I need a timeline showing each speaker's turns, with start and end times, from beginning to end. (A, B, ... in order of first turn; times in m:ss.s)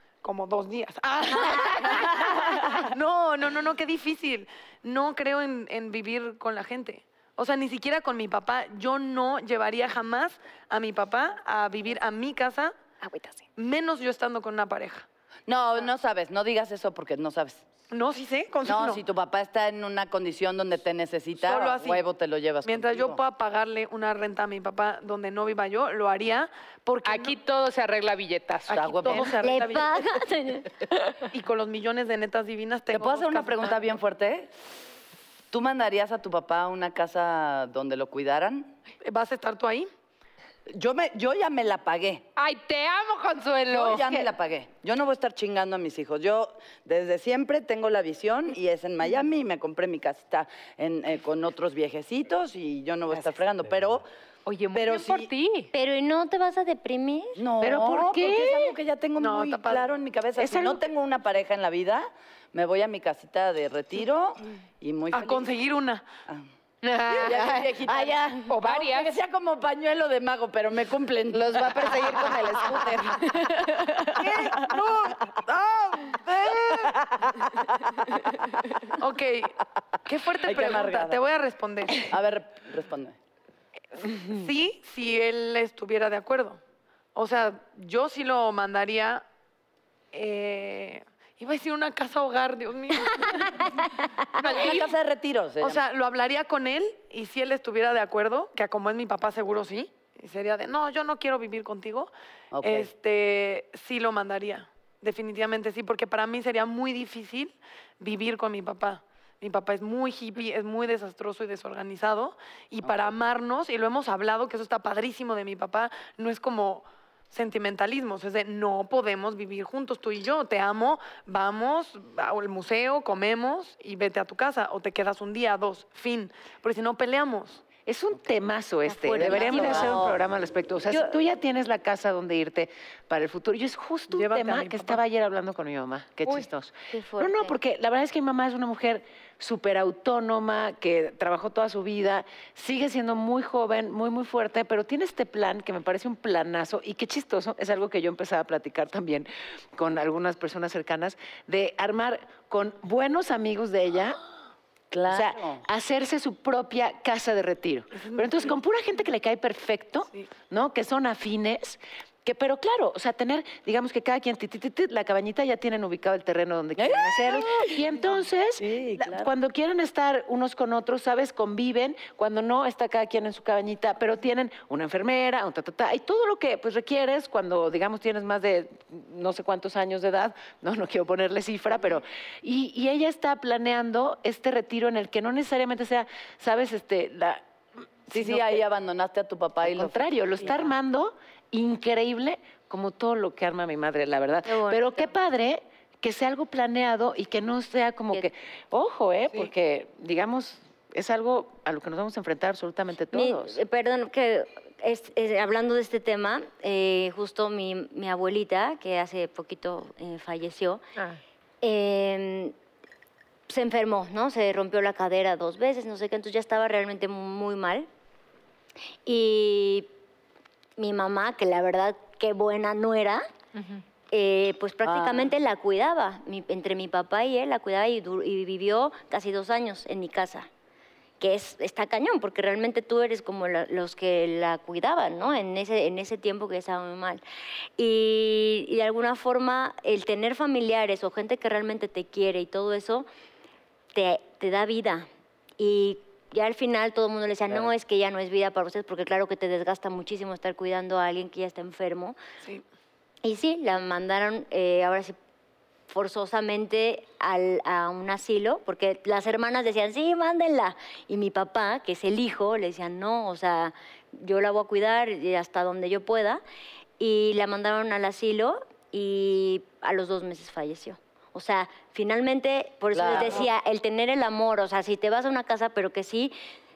0:00.2-0:12.7 A
0:13.0-0:13.4 B
0:13.6-0:15.0 A
0:15.5-0:17.6 C
0:17.9-0:19.0 A
0:18.6-0:23.2 C
0:21.4-0:22.0 A
0:22.6-0:27.4 A
0:27.0-0:29.3 D
0:28.7-0:29.9 A
0:28.7-0:29.3 C
0:29.4-0:30.7 B
0:31.3-0:33.9 A
0:32.9-0:34.5 C
0:35.5-0:38.7 C
0:39.0-0:39.9 A
0:40.7-0:42.2 C
0:42.4-0:44.3 D
0:43.7-0:54.1 C
0:54.4-0:55.7 D
0:54.7-0:55.3 C
0:55.7-0:57.4 B
0:57.4-1:05.5 C
0:57.6-0:58.7 E
0:59.2-0:59.9 A
1:00.4-1:00.8 E
1:05.1-1:06.0 A
1:06.8-1:07.4 D
1:07.1-1:12.9 C
1:07.6-1:08.5 F
1:08.5-1:09.2 D
1:11.3-1:14.0 F
1:14.2-1:16.9 A
1:14.2-1:18.4 C
1:18.9-1:22.1 A
1:20.4-1:21.2 C
1:22.0-1:23.2 C
1:24.0-1:26.6 A
1:27.1-1:29.2 A
1:30.1-1:33.8 A
1:33.3-1:34.4 B
1:34.4-1:34.9 A
1:34.4-1:35.8 C
1:35.6-2:07.6 A
1:42.5-1:42.9 C
1:52.8-1:53.1 C
2:07.8-2:34.2 E
2:08.9-2:10.1 B
2:09.1-2:10.2 C
2:10.9-2:11.1 B
2:14.1-2:15.0 A
2:16.3-2:17.6 B
2:34.9-2:35.6 C
2:35.1-3:07.4 E
2:38.0-2:38.6 A
2:46.8-2:47.8 C
2:48.6-2:49.3 C
3:08.1-3:08.6 E
3:08.1-3:10.6 C
3:09.6-3:23.6 E
3:14.4-3:15.1 B
3:23.1-3:30.8 B
3:31.6-3:32.5 B
3:33.5-3:37.9 B
3:39.0-3:39.9 B
3:40.8-3:43.2 B
3:43.6-3:43.8 D
3:44.1-3:50.5 B
3:44.8-3:45.3 C
3:51.2-3:57.2 B
3:57.8-4:03.1 B
4:03.9-4:05.1 B
4:05.6-4:12.2 B
4:13.2-4:15.2 B
4:15.9-4:26.4 B
4:27.0-4:36.3 B
4:32.9-4:33.5 C